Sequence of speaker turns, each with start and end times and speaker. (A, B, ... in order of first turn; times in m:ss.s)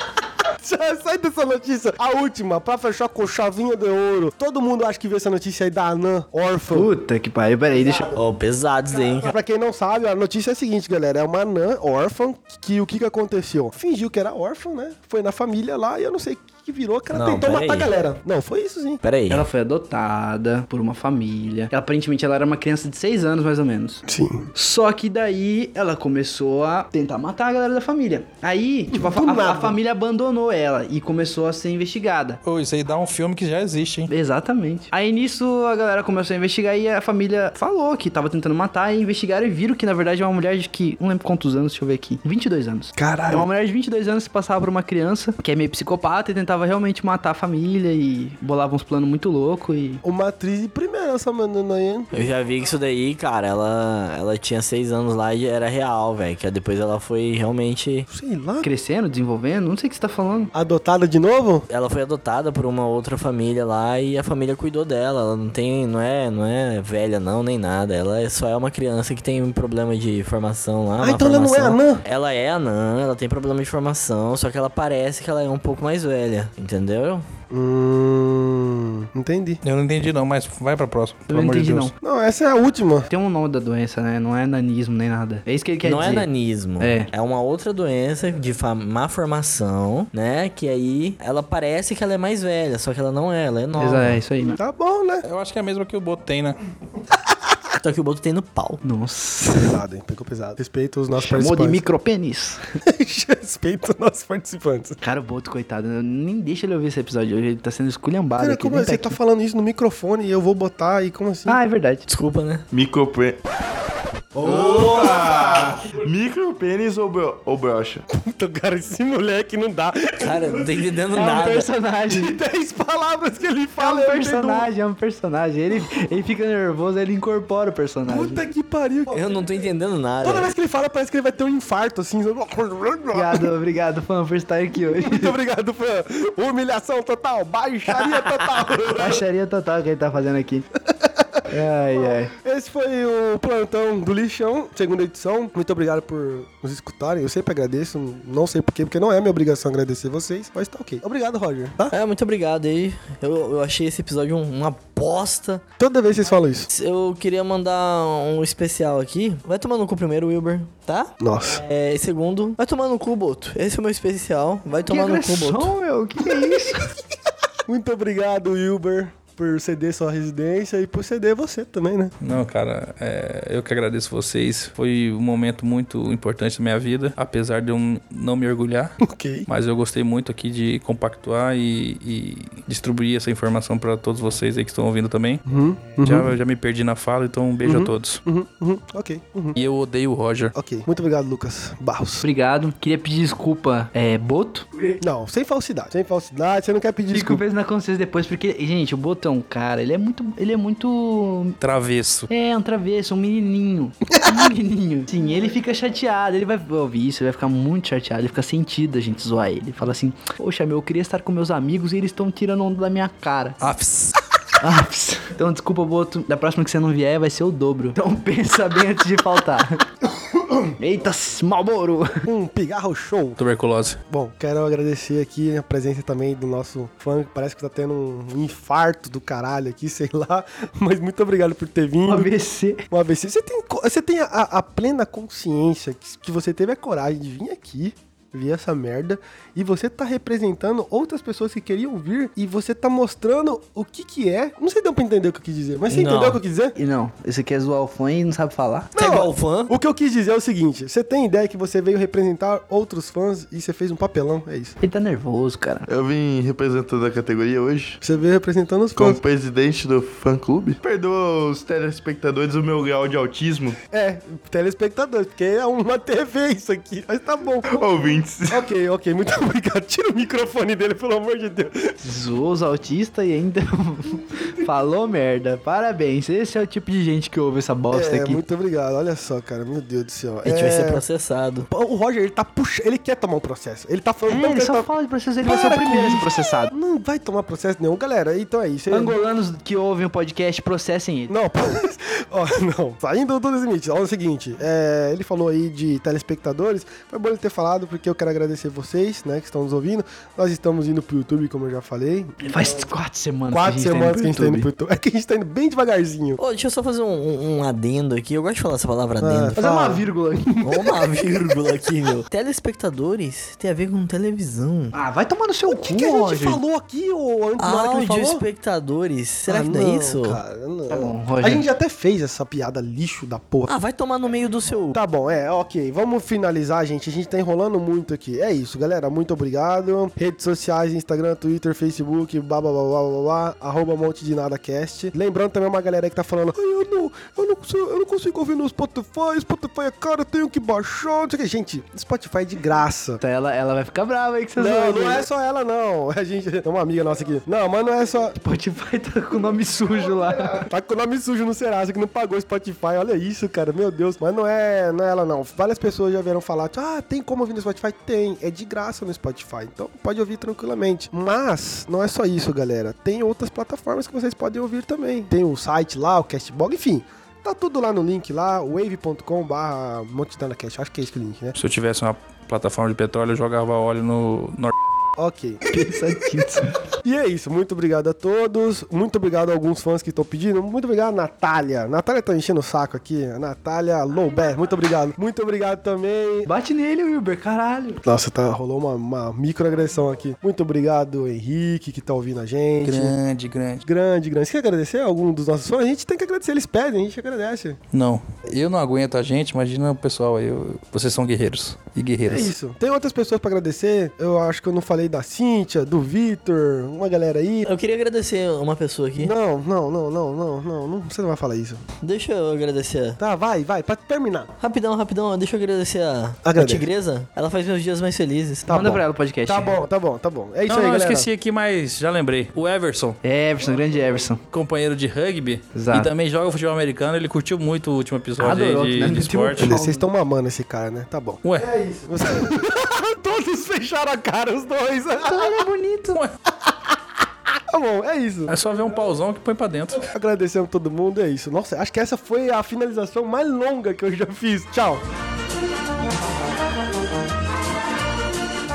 0:00.6-0:06.9 A
0:06.7-0:08.1 B
0:08.1-0:09.3 C
0:09.1-0:19.0 A
0:17.1-0:17.9 C
0:19.0-0:19.4 C
0:19.3-0:24.0 B
0:24.1-0:24.5 A
0:24.6-0:32.4 B
0:28.9-0:29.8 A
0:32.4-0:34.1 D
0:34.1-0:50.0 B
0:43.0-0:43.5 A
0:50.0-0:52.1 A
0:52.1-0:58.1 C
0:58.1-0:58.6 A
0:58.6-1:00.5 B
1:00.5-1:01.6 A
1:01.7-1:17.3 C
1:11.0-1:12.0 A
1:17.5-1:19.6 A
1:19.6-1:21.9 D
1:21.3-1:21.9 B
1:22.0-1:23.1 A
1:23.1-1:26.3 B
1:25.8-1:34.2 C
1:26.8-1:27.1 B
1:33.8-1:34.6 B
1:34.6-1:35.2 A
1:35.2-1:36.6 D
1:37.8-1:38.8 C
1:38.8-1:39.8 B
1:39.5-1:41.8 A
1:41.2-1:42.6 B
1:42.8-1:45.0 A
1:45.0-1:49.1 B
1:48.4-1:51.6 A
1:51.5-1:52.0 B
1:52.1-1:52.6 C
1:52.7-1:53.4 E
1:54.4-1:58.0 E
1:54.5-1:55.2 C
1:58.1-2:00.8 A
2:00.2-2:01.7 C
2:01.1-2:02.3 B
2:02.1-2:04.7 A
2:03.8-2:08.4 B
2:08.0-2:09.5 A
2:09.1-2:10.5 C
2:10.2-2:13.5 A
2:13.1-2:15.3 B
2:14.8-2:19.2 A
2:17.9-2:20.6 B
2:20.9-2:21.5 A
2:21.5-2:22.3 B
2:22.3-2:31.9 A
2:31.9-2:35.6 C
2:35.8-2:36.7 A
2:36.7-2:45.7 C
2:41.2-2:41.6 A
2:44.9-2:46.9 B
2:47.7-2:52.1 A
2:52.2-3:05.4 D
2:59.0-2:59.5 A
3:05.5-3:06.3 A
3:06.0-3:08.2 D
3:07.6-3:09.6 A
3:09.6-3:10.6 D
3:10.6-3:12.2 A
3:12.2-3:14.7 B
3:15.0-3:17.4 A
3:17.1-3:21.6 B
3:21.6-3:22.3 D
3:22.3-3:33.6 B
3:33.6-3:34.2 D
3:34.6-3:39.8 B
3:40.8-3:42.2 B
3:42.2-3:43.4 A
3:43.4-3:44.0 D
3:44.1-3:52.3 A
3:52.1-3:52.8 B
3:52.9-4:06.7 A
4:05.9-4:06.4 C
4:06.8-4:08.9 B
4:08.9-4:14.8 A
4:09.0-4:09.7 C
4:14.8-4:15.9 B
4:15.9-4:18.0 E
4:18.0-4:19.2 A
4:19.0-4:23.8 E
4:23.9-4:27.8 A
4:27.7-4:28.6 E
4:28.5-4:32.0 A
4:32.0-4:38.4 B
4:37.9-4:41.0 A
4:40.4-4:41.7 C
4:41.7-4:44.9 A
4:44.3-4:46.7 B
4:45.4-4:49.2 A
4:48.9-4:51.3 B
4:51.3-5:02.8 A
5:02.4-5:04.7 B
5:03.5-5:06.4 A
5:06.4-5:09.6 C
5:09.2-5:11.8 A
5:09.6-5:10.6 B
5:10.6-5:14.9 C
5:14.9-5:16.6 B
5:15.7-5:18.4 A
5:17.6-5:20.4 C
5:19.5-5:23.7 A
5:20.9-5:21.6 B
5:23.7-5:25.0 C
5:24.9-5:43.2 A
5:43.2-5:45.2 B
5:44.6-5:48.4 A
5:48.4-5:50.6 B
5:50.0-6:11.6 A
6:11.6-6:14.7 D
6:15.2-6:15.6 A
6:15.7-6:16.7 B
6:17.0-6:26.5 A
6:26.5-6:28.0 B
6:28.0-6:33.1 A
6:32.8-6:33.8 D
6:33.8-6:37.8 A
6:37.9-6:42.5 D
6:42.3-6:47.7 A
6:47.6-6:49.3 C
6:49.2-6:51.8 A
6:52.0-6:53.2 C
6:53.2-6:54.5 A
6:54.6-6:58.7 C
6:56.4-6:56.8 A
6:58.7-6:59.7 B
6:58.7-7:01.2 A
7:00.7-7:03.2 D
7:03.2-7:04.4 B
7:04.5-7:09.7 D
7:05.7-7:06.1 B
7:08.4-7:10.0 B
7:09.6-7:15.6 A
7:11.4-7:11.7 D
7:15.2-7:16.2 B
7:17.7-7:18.6 A
7:18.5-7:20.0 D
7:19.9-7:25.0 A